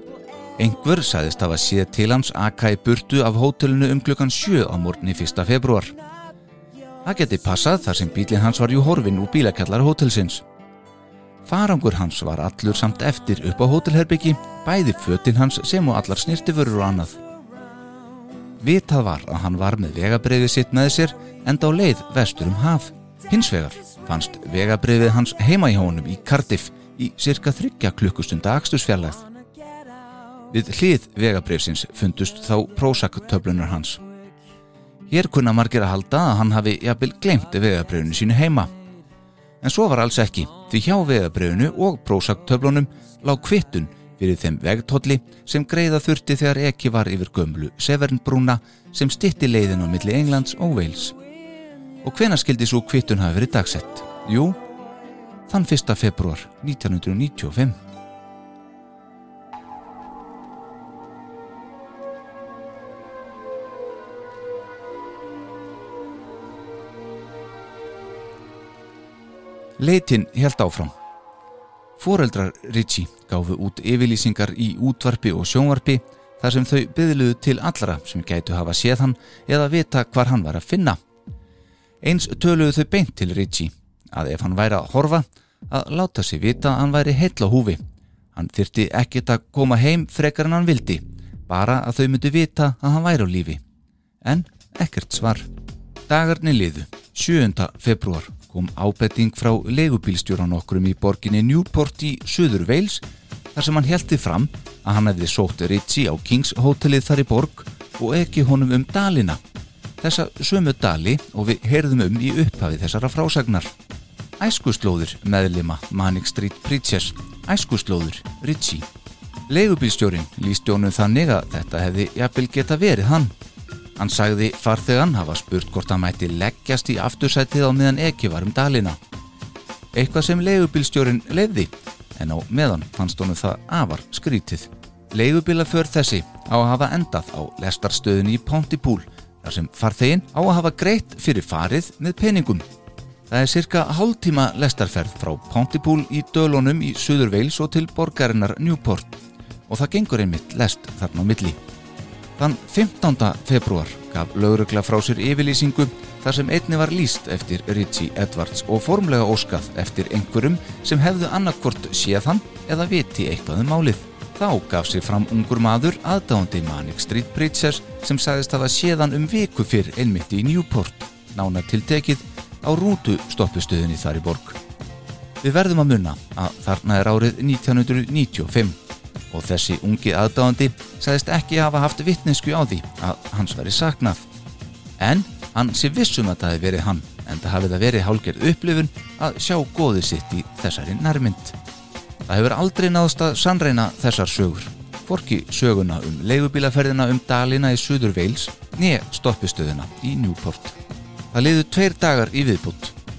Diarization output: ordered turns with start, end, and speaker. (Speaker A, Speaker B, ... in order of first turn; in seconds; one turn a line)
Speaker A: 0.6-5.9
Speaker A: 7.0-10.4
Speaker A: 11.4-17.2
Speaker A: 18.6-29.2
Speaker A: 30.5-34.0
Speaker A: 35.1-38.7
Speaker A: 39.6-51.1
Speaker A: 52.0-54.6
Speaker A: 55.5-57.8
Speaker A: 69.8-70.9
Speaker A: 72.0-81.0
Speaker A: 82.0-87.8
Speaker A: 88.3-93.6
Speaker A: 94.2-95.5
Speaker A: 96.1-103.0
Speaker A: 103.5-109.4
Speaker A: 110.0-113.7
Speaker A: 114.4-118.8
Speaker A: 119.5-123.3
Speaker A: 124.0-129.0
Speaker A: 129.9-142.6
Speaker A: 143.3-151.6
Speaker A: 152.4-174.6
Speaker A: 175.4-178.8
Speaker A: 179.3-184.2
Speaker A: 185.0-191.6
Speaker A: 192.3-200.8
Speaker A: 201.3-202.9